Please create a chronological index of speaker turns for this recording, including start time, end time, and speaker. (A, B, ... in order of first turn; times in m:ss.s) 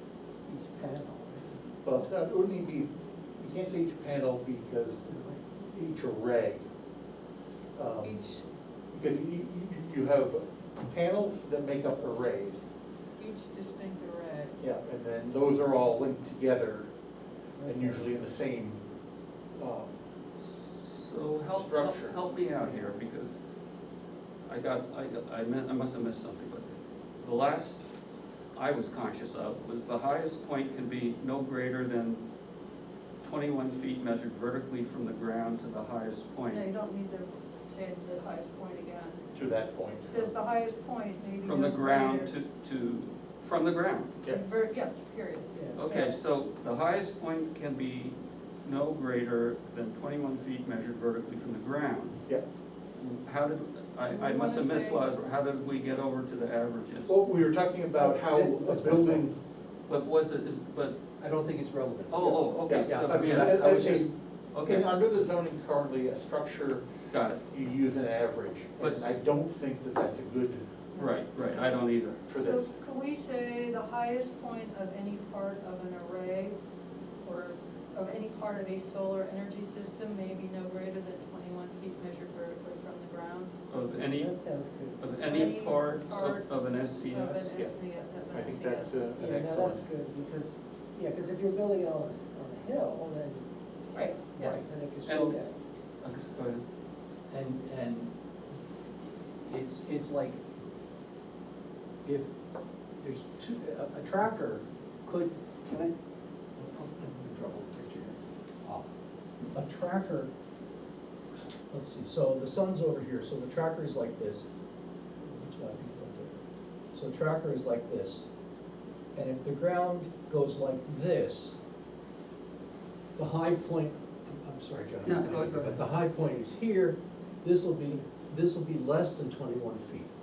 0:00.5-0:01.6 A
0:01.8-0:06.6 B
0:05.1-0:05.4 A
0:07.7-0:08.2 B
0:08.0-0:08.4 C
0:08.9-0:12.7 B
0:13.2-0:14.5 C
0:14.6-0:16.9 B
0:17.6-0:18.2 A
0:17.6-0:18.8 B
0:19.6-0:19.9 B
0:20.4-0:23.3 D
0:21.5-0:22.2 B
0:24.4-0:27.8 D
0:28.5-0:32.2 D
0:33.2-0:36.6 D
0:36.5-0:39.2 C
0:39.3-0:40.3 B
0:40.1-0:42.3 C
0:41.4-0:44.2 D
0:44.3-0:46.2 C
0:45.5-0:45.8 A
0:45.7-0:52.2 D
0:53.0-0:57.1 D
0:54.1-0:55.0 C
0:57.0-0:59.3 B
0:58.0-0:59.3 E
0:59.9-1:01.0 D
1:01.2-1:04.1 E
1:02.1-1:04.9 D
1:02.5-1:06.8 B
1:07.1-1:07.4 D
1:07.5-1:10.6 B
1:08.8-1:09.2 D
1:10.9-1:11.2 C
1:11.0-1:12.2 D
1:12.3-1:12.7 B
1:12.4-1:16.6 C
1:17.2-1:23.5 C
1:23.7-1:24.3 D
1:24.0-1:25.6 A
1:25.0-1:27.5 D
1:25.2-1:28.9 C
1:28.3-1:29.8 B
1:29.2-1:35.5 A
1:33.9-1:34.6 C
1:35.0-1:35.4 D
1:36.0-1:36.6 D
1:37.3-1:38.1 E
1:39.4-1:40.4 E
1:42.0-1:42.3 E
1:43.0-1:45.9 E
1:46.5-1:48.9 E
1:49.5-1:50.3 E
1:51.7-1:54.4 E
1:55.2-1:56.4 E
1:56.9-1:58.3 E
1:59.1-2:01.6 E
2:03.2-2:10.1 E
2:05.0-2:05.8 D